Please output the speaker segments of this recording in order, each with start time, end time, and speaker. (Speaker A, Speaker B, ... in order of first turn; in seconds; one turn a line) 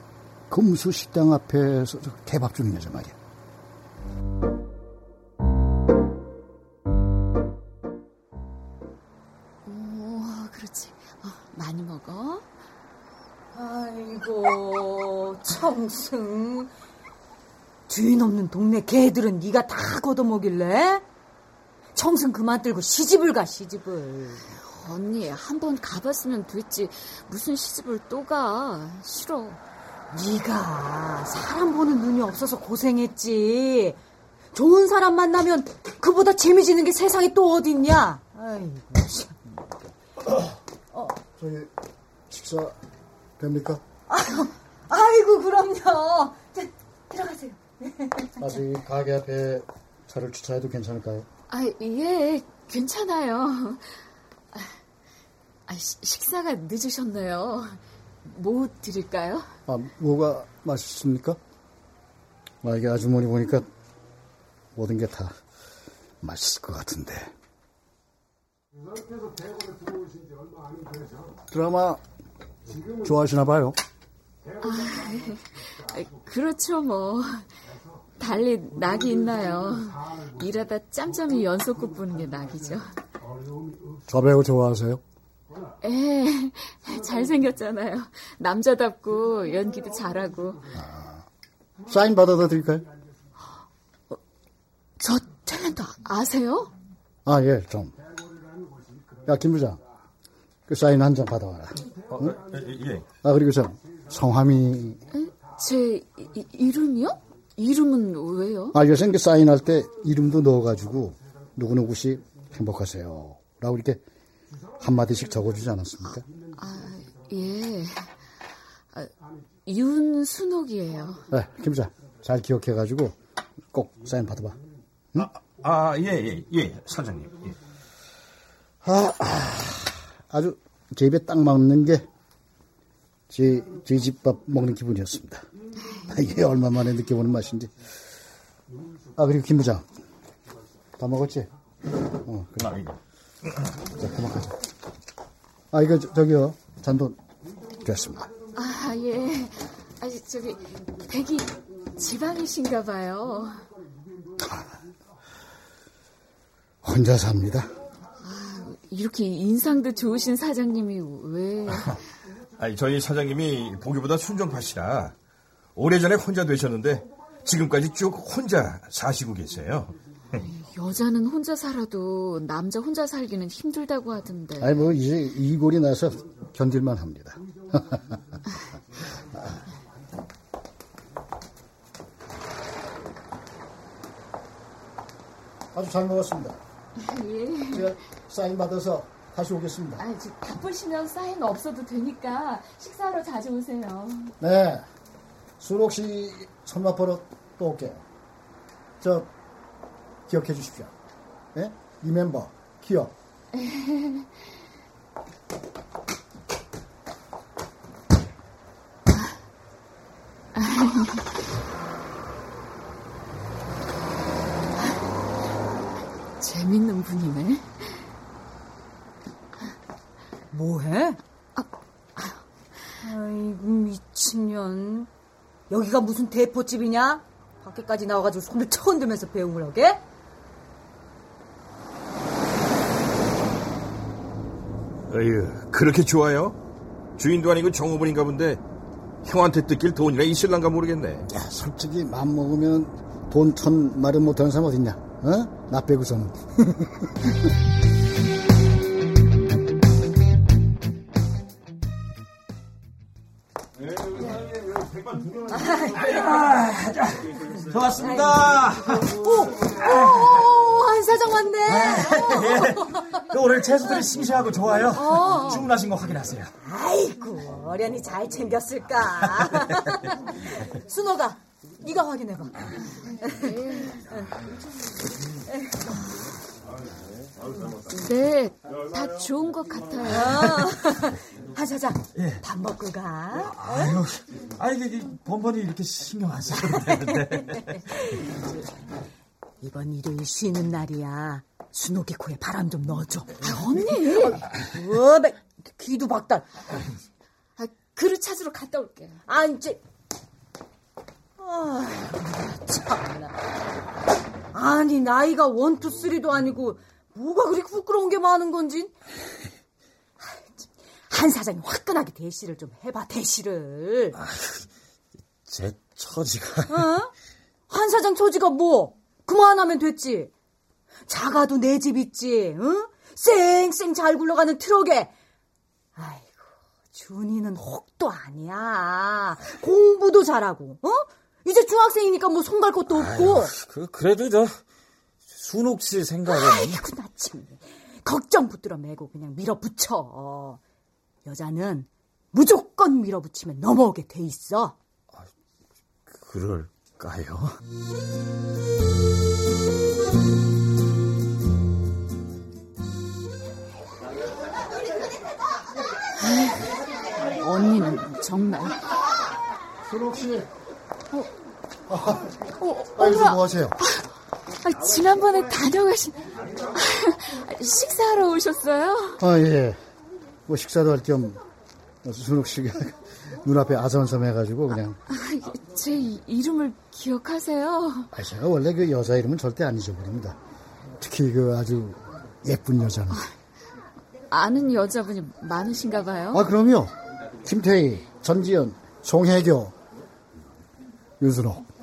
Speaker A: 0.5-3.2
Speaker B: 9.7-12.4
Speaker C: 13.5-16.7
Speaker C: 17.9-21.1
Speaker C: 21.9-24.5
Speaker B: 24.7-29.6
Speaker C: 30.1-34.0
Speaker C: 34.5-39.4
Speaker C: 40.9-41.2
Speaker A: 41.4-41.7
Speaker A: 42.3-42.8
Speaker A: 43.4-43.8
Speaker C: 44.1-48.4
Speaker A: 48.4-51.3
Speaker B: 51.5-54.0
Speaker B: 55.7-59.5
Speaker A: 59.7-61.4
Speaker A: 62.6-63.7
Speaker A: 64.8-65.3
Speaker A: 66.2-67.3
Speaker A: 71.5-72.0
Speaker A: 73.0-73.8
Speaker B: 74.6-77.5
Speaker B: 78.2-82.9
Speaker A: 84.1-85.0
Speaker B: 85.8-90.7
Speaker A: 90.8-91.2
Speaker A: 91.9-92.9
Speaker B: 95.0-96.7
Speaker A: 97.3-98.0
Speaker A: 99.2-99.8
Speaker A: 100.7-102.3
Speaker D: 102.1-103.0
Speaker A: 103.2-105.0
Speaker B: 105.1-108.8
Speaker A: 108.7-114.0
Speaker A: 114.8-116.2
Speaker B: 116.0-118.2
Speaker B: 119.7-121.2
Speaker A: 121.3-123.2
Speaker A: 123.7-124.6
Speaker D: 125.2-127.5
Speaker A: 128.8-132.1
Speaker A: 133.3-135.4
Speaker A: 136.0-137.7
Speaker A: 139.2-139.9
Speaker A: 141.0-141.5
Speaker A: 142.2-142.8
Speaker D: 142.7-142.9
Speaker A: 144.0-144.6
Speaker A: 145.7-147.2
Speaker A: 147.8-148.3
Speaker B: 148.6-153.7
Speaker A: 154.4-154.7
Speaker A: 156.8-157.7
Speaker B: 158.2-162.0
Speaker D: 162.6-165.1
Speaker D: 165.8-170.4
Speaker B: 170.4-174.8
Speaker A: 174.6-178.2
Speaker A: 185.7-186.6
Speaker B: 187.0-187.9
Speaker A: 187.7-190.0
Speaker B: 190.0-194.4
Speaker A: 194.4-194.9
Speaker A: 195.6-198.0
Speaker A: 199.0-199.3
Speaker A: 200.3-200.9
Speaker A: 201.5-203.1
Speaker B: 203.5-204.3
Speaker B: 210.6-211.3
Speaker B: 216.4-218.1
Speaker C: 220.5-221.2
Speaker B: 221.6-222.4
Speaker C: 223.0-225.1
Speaker C: 225.7-230.0
Speaker D: 235.1-236.6
Speaker D: 237.2-238.6
Speaker D: 239.2-241.3
Speaker A: 241.3-247.5
Speaker C: 255.5-256.5
Speaker E: 256.1-259.2
Speaker C: 258.0-258.4
Speaker C: 259.1-263.2
Speaker E: 261.7-266.5
Speaker C: 264.9-265.7
Speaker C: 266.6-273.6
Speaker B: 273.4-274.1
Speaker B: 277.9-280.4
Speaker C: 280.0-284.0
Speaker E: 282.1-282.4
Speaker E: 283.4-287.7
Speaker C: 286.6-288.7
Speaker C: 289.6-296.6
Speaker B: 293.4-294.4
Speaker B: 297.6-299.2
Speaker C: 299.3-299.8
Speaker C: 301.4-303.2
Speaker C: 304.5-308.9
Speaker C: 310.2-314.2
Speaker E: 314.1-314.7
Speaker E: 315.5-316.9
Speaker C: 316.7-317.1
Speaker C: 317.7-320.3
Speaker C: 321.1-325.1
Speaker C: 326.0-333.5
Speaker E: 332.9-334.6
Speaker E: 335.3-336.8
Speaker C: 336.3-340.6
Speaker C: 341.2-344.8
Speaker E: 346.1-347.6
Speaker B: 356.2-356.6
Speaker B: 357.4-358.8
Speaker A: 359.9-360.5
Speaker A: 361.9-362.3
Speaker B: 362.6-364.0
Speaker A: 363.0-363.8
Speaker B: 364.6-369.2
Speaker A: 369.2-369.8
Speaker A: 370.5-371.4
Speaker A: 372.0-375.0
Speaker B: 375.1-378.1
Speaker A: 378.1-380.4
Speaker A: 381.0-383.2
Speaker B: 384.3-386.4
Speaker A: 386.3-389.8
Speaker A: 391.2-391.6